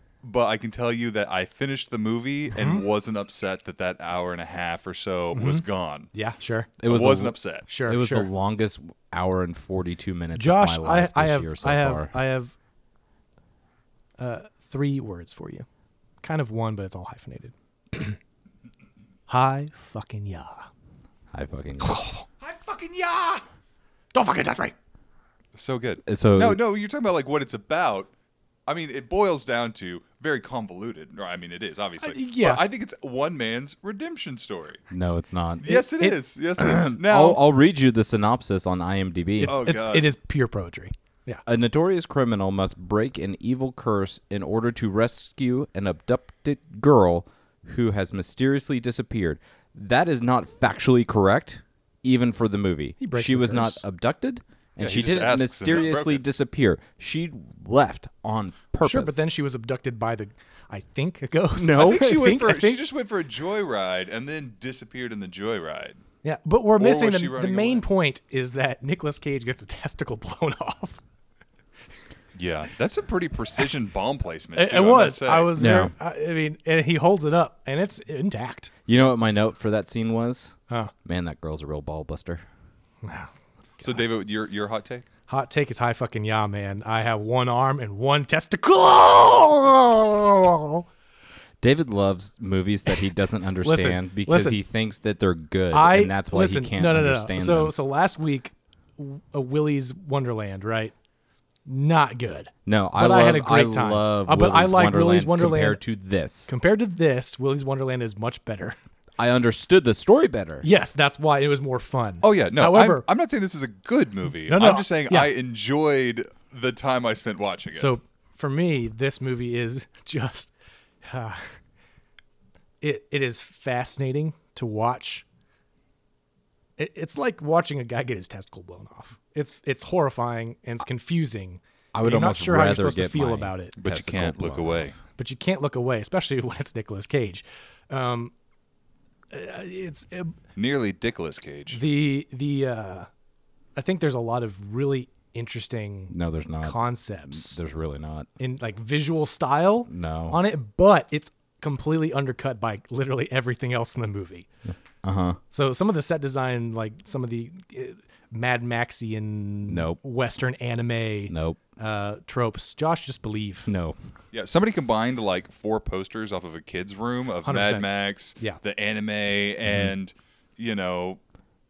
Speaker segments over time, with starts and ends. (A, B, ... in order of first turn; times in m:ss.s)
0:00.2-0:06.1 A
0:02.5-0:02.8 B
0:05.3-0:06.7 B
0:06.8-0:12.2 C
0:06.8-0:07.6 A
0:07.7-0:08.3 B
0:10.3-0:12.5 B
0:14.2-0:15.7 B
0:16.2-0:18.2 B
0:19.3-0:20.7 B
0:21.3-0:22.0 C
0:21.8-0:22.2 B
0:22.4-0:23.4 A
0:24.1-0:24.7 B
0:25.5-0:28.1 A
0:26.0-0:26.6 C
0:28.7-0:34.8 A
0:32.0-0:32.6 B
0:34.9-0:35.7 C
0:35.6-0:37.4 A
0:35.6-0:36.2 B
0:36.6-0:39.6 C
0:39.4-0:41.4 B
0:39.4-0:40.1 A
0:41.4-0:59.2 C
0:53.0-0:53.8 B
0:54.8-0:56.2 A
0:58.8-1:02.8 B
1:01.6-1:02.3 C
1:01.7-1:06.0 A
1:06.2-1:11.0 B
1:06.8-1:07.8 A
1:12.3-1:15.5 A
1:14.5-1:18.7 B
1:15.6-1:15.9 C
1:18.8-1:22.4 C
1:23.0-1:24.0 B
1:23.8-1:25.0 A
1:25.3-1:30.8 B
1:31.6-1:37.7 C
1:33.6-1:34.6 B
1:35.7-1:40.9 B
1:41.6-1:45.8 B
1:42.6-1:46.5 C
1:46.5-1:48.8 B
1:49.2-1:50.6 C
1:50.6-1:53.0 B
1:52.2-1:57.9 A
1:54.5-1:55.3 B
1:57.7-2:01.6 B
2:02.8-2:05.2 B
2:06.8-2:13.8 B
2:11.9-2:14.9 C
2:13.8-2:15.0 A
2:15.2-2:18.3 B
2:19.3-2:20.3 B
2:20.6-2:21.8 A
2:21.7-2:23.1 B
2:23.8-2:27.6 B
2:26.1-2:28.3 C
2:28.4-2:34.5 B
2:29.9-2:30.4 C
2:34.7-2:35.4 C
2:35.5-2:43.7 B
2:39.7-2:40.0 C
2:41.3-2:41.6 C
2:43.6-2:44.0 C
2:44.3-2:51.2 A
2:47.4-2:48.6 B
2:49.7-2:49.9 C